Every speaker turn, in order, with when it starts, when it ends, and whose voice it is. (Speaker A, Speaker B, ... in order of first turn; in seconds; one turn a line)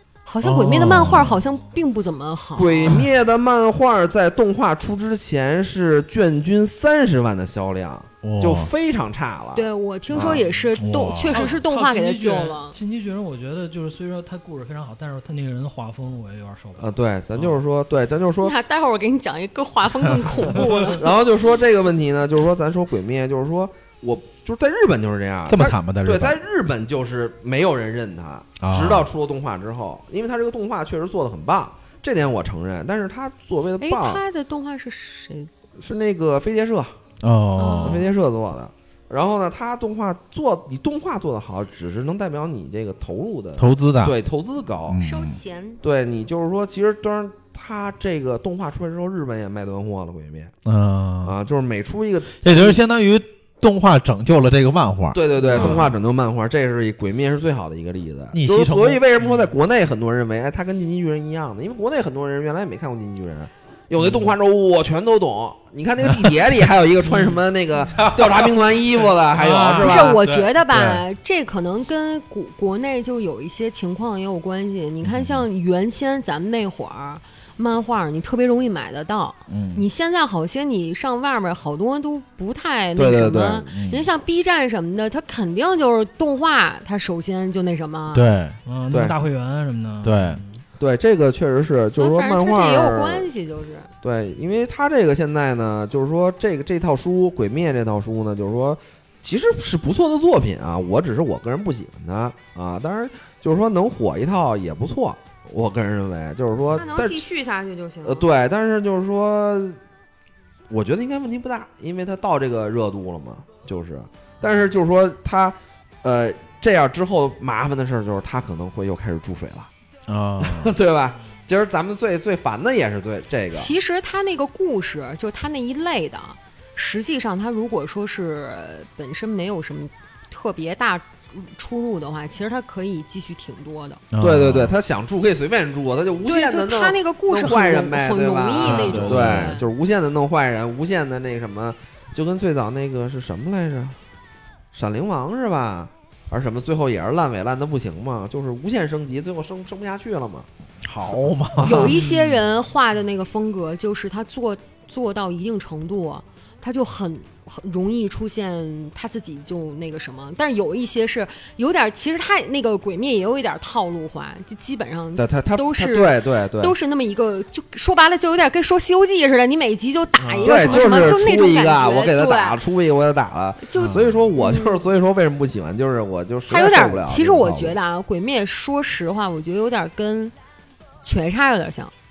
Speaker A: 0.3-3.0
Speaker B: 0.5-1.5
Speaker C: 0.5-1.4
Speaker D: 2.5-10.4
Speaker C: 8.2-8.7
Speaker A: 9.5-12.8
Speaker C: 10.8-11.6
Speaker B: 11.3-17.6
Speaker D: 16.8-18.6
Speaker A: 18.4-21.1
Speaker D: 20.8-34.2
Speaker C: 25.5-26.4
Speaker C: 28.6-29.1
Speaker A: 33.8-35.5
Speaker D: 35.8-37.0
Speaker C: 37.2-38.1
Speaker A: 37.6-38.0
Speaker D: 37.8-45.0
Speaker C: 43.6-44.2
Speaker C: 44.9-45.4
Speaker A: 45.0-45.8
Speaker D: 45.8-50.5
Speaker C: 50.6-51.4
Speaker D: 51.2-52.8
Speaker C: 52.4-55.9
Speaker D: 55.1-70.2
Speaker A: 55.5-55.8
Speaker C: 58.3-59.1
Speaker C: 64.0-64.3
Speaker B: 67.1-67.4
Speaker C: 68.0-68.8
Speaker B: 69.3-70.0
Speaker A: 69.8-88.3
Speaker C: 70.0-71.0
Speaker C: 75.0-75.5
Speaker C: 79.5-79.8
Speaker D: 83.0-83.7
Speaker C: 83.7-84.0
Speaker C: 88.1-88.6
Speaker B: 88.7-90.6
Speaker D: 88.9-89.2
Speaker C: 90.0-90.4
Speaker D: 90.8-93.3
Speaker A: 92.0-93.9
Speaker D: 94.0-107.2
Speaker A: 106.7-108.3
Speaker D: 108.0-109.8
Speaker D: 110.7-119.7
Speaker C: 120.1-120.7
Speaker D: 120.4-123.7
Speaker A: 123.5-134.0
Speaker C: 134.1-134.8
Speaker D: 134.2-144.0
Speaker A: 136.3-139.6
Speaker C: 138.6-139.6
Speaker D: 144.7-150.5
Speaker C: 150.8-152.0
Speaker A: 151.6-172.6
Speaker D: 151.6-151.9
Speaker D: 165.2-166.8
Speaker D: 170.2-177.8
Speaker B: 170.5-171.2
Speaker A: 173.6-174.8
Speaker A: 176.5-180.3
Speaker A: 181.0-181.9